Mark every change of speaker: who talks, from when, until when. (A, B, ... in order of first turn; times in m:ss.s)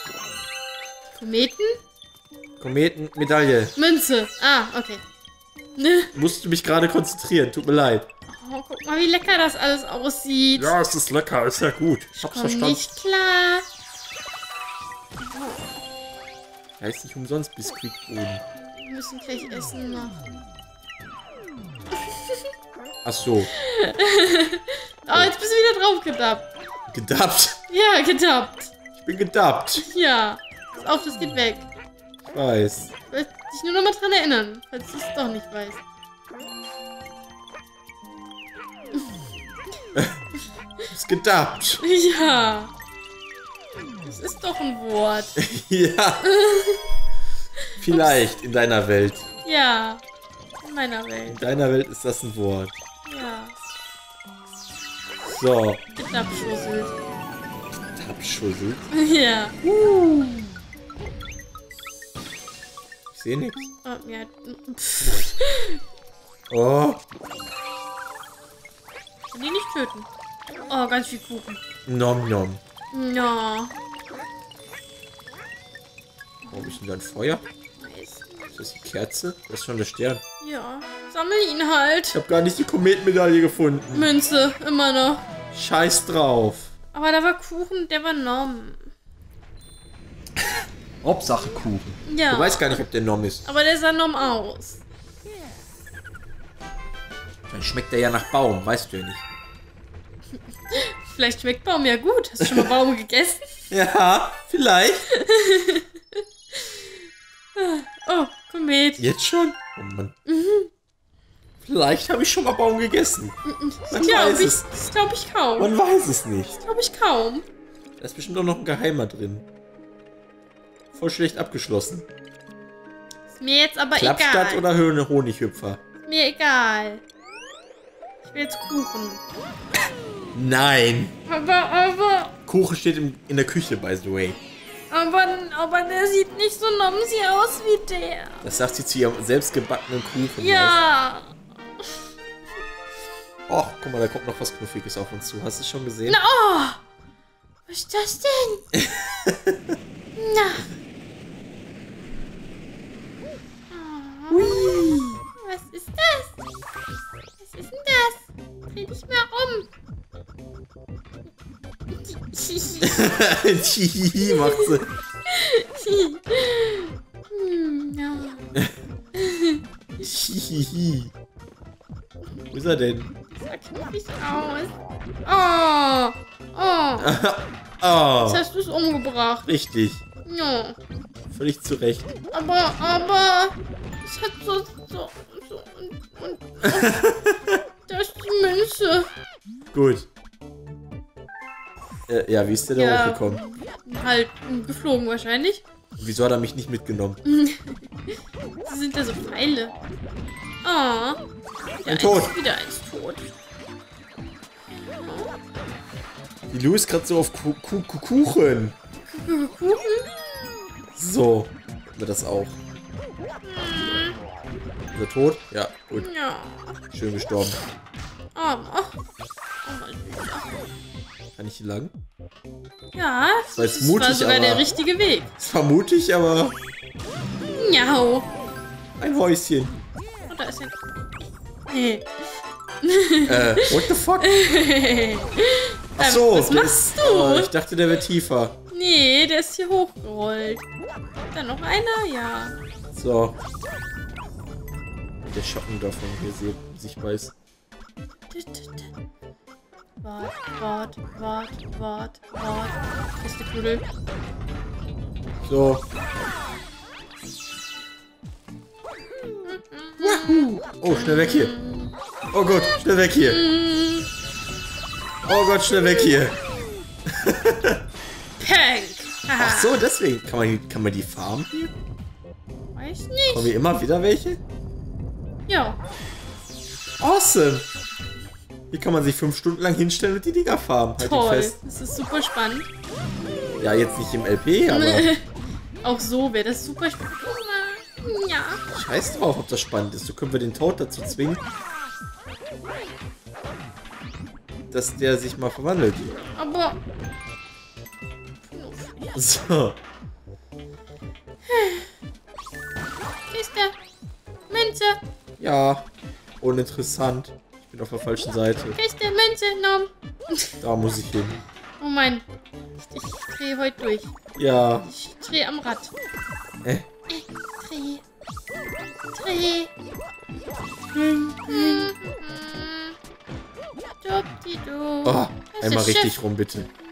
0:01.2-0:01.8 A
0:02.6-0:03.7 B
0:03.8-0:05.0 A
0:05.8-0:06.2 A
0:06.1-0:08.1 B
0:08.3-0:10.8 A
0:10.6-0:12.8 B
0:12.2-0:13.7 A
0:15.2-0:15.8 A
0:16.8-0:18.4 B
0:18.7-0:20.3 A
0:22.0-0:22.4 A
0:23.0-0:23.5 B
0:23.6-0:26.5 A
0:26.9-0:27.6 B
0:27.7-0:28.7 A
0:28.9-0:29.9 B
0:29.8-0:31.7 A
0:32.2-0:32.9 B
0:33.1-0:35.8 A
0:40.9-0:41.8 B
0:41.8-0:42.7 A
0:44.0-0:45.4 A
0:45.4-0:46.2 B
0:46.2-0:46.9 A
0:47.8-0:49.3 B
0:47.8-0:48.3 A
0:49.4-0:50.0 A
0:50.6-0:51.5 A
0:51.3-0:52.8 B
0:53.1-0:53.5 A
0:55.2-0:55.8 B
0:56.0-0:56.9 A
0:57.9-0:58.9 B
0:58.9-0:59.6 A
0:59.6-1:00.6 B
1:03.1-1:03.7 B
1:03.8-1:05.8 A
1:05.0-1:05.3 B
1:06.5-1:07.0 B
1:09.3-1:10.1 A
1:10.7-1:11.6 A
1:11.9-1:12.6 B
1:12.9-1:13.7 A
1:16.5-1:17.4 B
1:17.8-1:18.5 A
1:18.5-1:20.2 B
1:20.4-1:22.2 A
1:22.1-1:24.1 B
1:23.9-1:25.2 A
1:25.5-1:26.7 B
1:26.9-1:28.9 A
1:31.0-1:33.4 B
1:32.1-1:32.8 A
1:33.4-1:34.8 A
1:37.5-1:39.2 B
1:40.7-1:43.6 A
1:42.4-1:42.7 B
1:43.7-1:45.1 B
1:45.1-1:47.0 A
1:47.6-1:49.0 A
1:49.0-1:50.2 B
1:50.3-1:50.7 A
1:51.6-1:53.4 B
1:53.5-1:55.7 A
1:53.9-1:54.6 B
1:55.6-1:56.6 B
1:56.6-1:57.5 A
1:58.0-1:59.5 B
2:00.9-2:02.1 B
2:03.3-2:04.6 A
2:04.0-2:05.8 B
2:06.0-2:07.0 A
2:08.2-2:09.2 A
2:10.3-2:11.1 B
2:11.3-2:12.4 A
2:12.5-2:14.4 B
2:14.9-2:18.4 A
2:18.4-2:20.8 B
2:20.4-2:22.0 A
2:23.5-2:26.2 B
2:26.1-2:26.8 A
2:27.7-2:28.7 A
2:28.8-2:29.7 B
2:30.2-2:30.7 A
2:33.7-2:34.8 A
2:34.3-2:35.2 B
2:35.4-2:36.4 A
2:37.4-2:39.7 A
2:41.9-2:43.1 A
2:42.8-2:44.9 B
2:44.2-2:44.7 A
2:45.3-2:48.5 A
2:49.2-2:49.6 A
2:50.0-2:51.1 B
2:52.5-2:53.1 B
2:53.3-2:57.1 A
2:57.0-2:58.4 B
2:58.2-2:59.5 A
2:59.5-3:00.0 B
3:00.3-3:00.8 A
3:01.3-3:02.1 B
3:02.3-3:07.0 A
3:06.6-3:07.6 B
3:07.9-3:09.1 A
3:09.7-3:10.1 B
3:12.1-3:13.4 B
3:12.8-3:15.6 A
3:16.0-3:17.2 B
3:17.2-3:19.8 A
3:20.6-3:21.2 A
3:21.8-3:23.3 A
3:21.9-3:22.4 B
3:24.8-3:25.4 A
3:26.5-3:28.8 B
3:29.1-3:30.1 A
3:31.0-3:32.6 B
3:33.4-3:34.2 A
3:34.9-3:36.1 B
3:35.9-3:36.8 A
3:36.9-3:37.6 B
3:38.4-3:39.0 A
3:39.6-3:40.7 A
3:41.4-3:41.9 B
3:43.0-3:45.3 A
3:43.6-3:44.6 B
3:45.4-3:46.6 B
3:47.6-3:48.3 A
3:49.0-3:49.8 B
3:50.3-3:50.8 A
3:51.7-3:52.1 A
3:52.8-3:57.5 A
3:53.3-3:54.3 B
3:56.0-3:58.6 B
3:58.7-4:00.6 A
4:01.3-4:02.6 A
4:02.9-4:03.4 B
4:05.3-4:07.3 B
4:08.3-4:08.9 A
4:10.0-4:13.8 A
4:15.4-4:15.8 B
4:19.5-4:24.1 A
4:20.0-4:21.6 B
4:22.3-4:23.4 B
4:25.3-4:26.4 B
4:27.1-4:27.8 B
4:28.4-4:29.8 A
4:29.4-4:31.7 B
4:32.8-4:33.5 A
4:33.3-4:34.4 B
4:35.5-4:35.8 A
4:37.0-4:37.7 B
4:38.7-4:41.6 B
4:41.0-4:42.7 A
4:43.6-4:45.1 B
4:44.7-4:45.3 A
4:45.8-4:48.6 A
4:48.7-4:51.4 B
4:54.7-4:56.2 B
4:56.4-4:56.8 A
4:58.4-4:59.2 A
4:59.2-4:59.8 B
5:01.5-5:01.9 A
5:03.3-5:03.8 A
5:04.5-5:05.0 A
5:05.4-5:05.9 B
5:06.4-5:08.8 B
5:08.8-5:10.5 A
5:10.6-5:11.4 B
5:11.8-5:12.2 A
5:12.8-5:14.1 A
5:14.4-5:14.9 B
5:14.8-5:15.9 A
5:17.1-5:18.0 A
5:19.1-5:19.7 A
5:20.9-5:21.9 B
5:21.5-5:23.0 A
5:24.0-5:26.1 A
5:25.0-5:26.7 B